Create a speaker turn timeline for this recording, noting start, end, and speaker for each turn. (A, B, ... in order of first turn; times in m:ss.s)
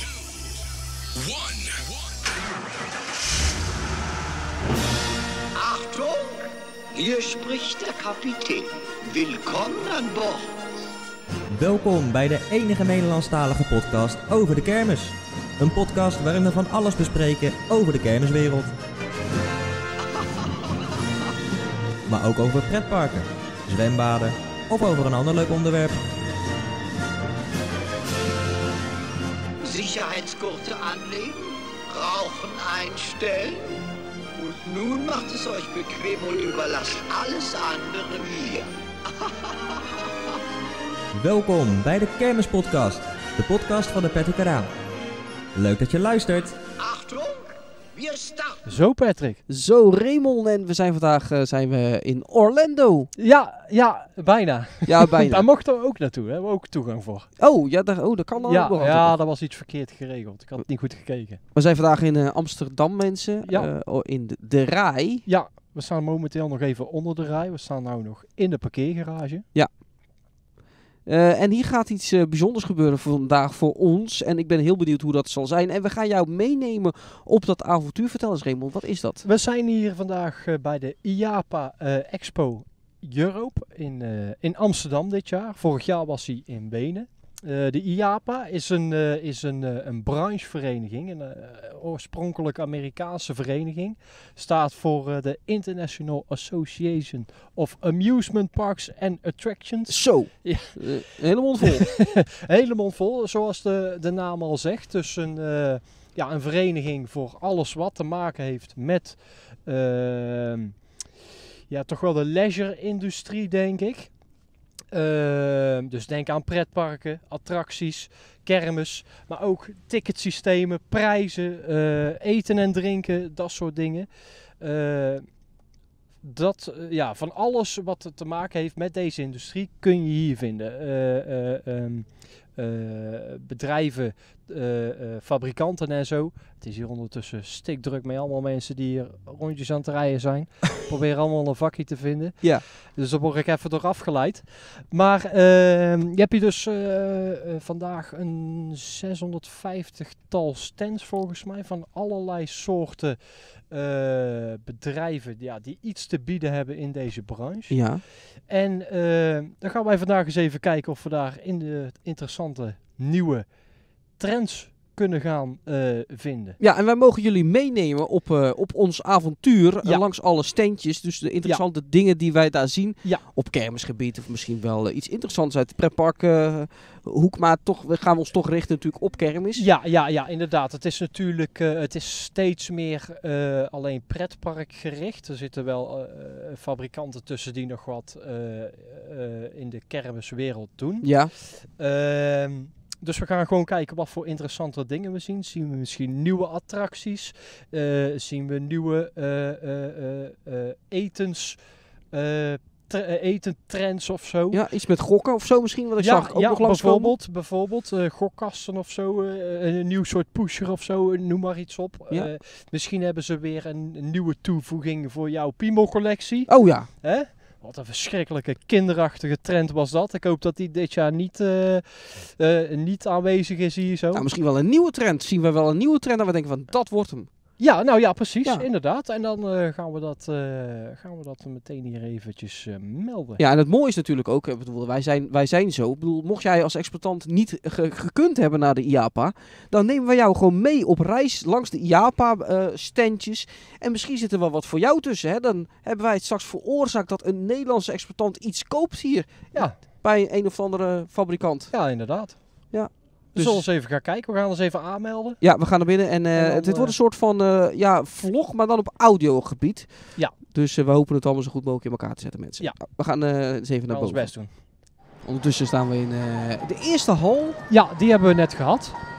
0:05.6-0:10.5 A
0:11.5-0:18.8 B
0:20.2-0:21.0 A
0:22.1-0:26.0 B
0:29.6-0:33.8 A
0:34.4-0:40.1 A
0:41.2-0:44.7 B
0:45.6-0:46.6 B
0:46.8-0:48.6 A
0:48.7-0:49.4 C
0:49.5-0:53.1 D
0:53.2-0:57.3 C
0:54.9-0:55.4 D
0:57.4-0:59.2 D
0:58.4-1:01.4 C
1:01.5-1:05.2 D
1:05.3-1:09.5 C
1:11.1-1:19.2 D
1:19.2-1:41.0 C
1:39.9-1:41.9 D
1:41.7-1:50.8 C
1:51.7-1:54.1 C
1:54.9-2:04.1 C
2:04.6-2:05.3 C
2:06.2-2:37.9 C
2:37.7-2:38.0 D
2:38.4-2:43.6 C
2:44.2-2:46.6 C
2:46.6-2:59.6 D
2:59.6-3:21.6 C
3:11.0-3:11.3 D
3:22.1-3:24.6 C
3:24.5-3:27.1 D
3:26.0-3:44.2 C
3:36.5-3:36.9 D
3:44.1-3:47.3 D
3:47.6-3:53.4 C
3:53.4-4:11.7 D
4:11.7-4:12.8 C
4:12.7-4:13.6 D
4:13.4-4:15.4 C
4:15.4-4:24.3 D
4:16.4-4:17.0 C
4:23.9-4:24.5 C
4:25.2-4:27.6 D
4:27.7-4:29.0 C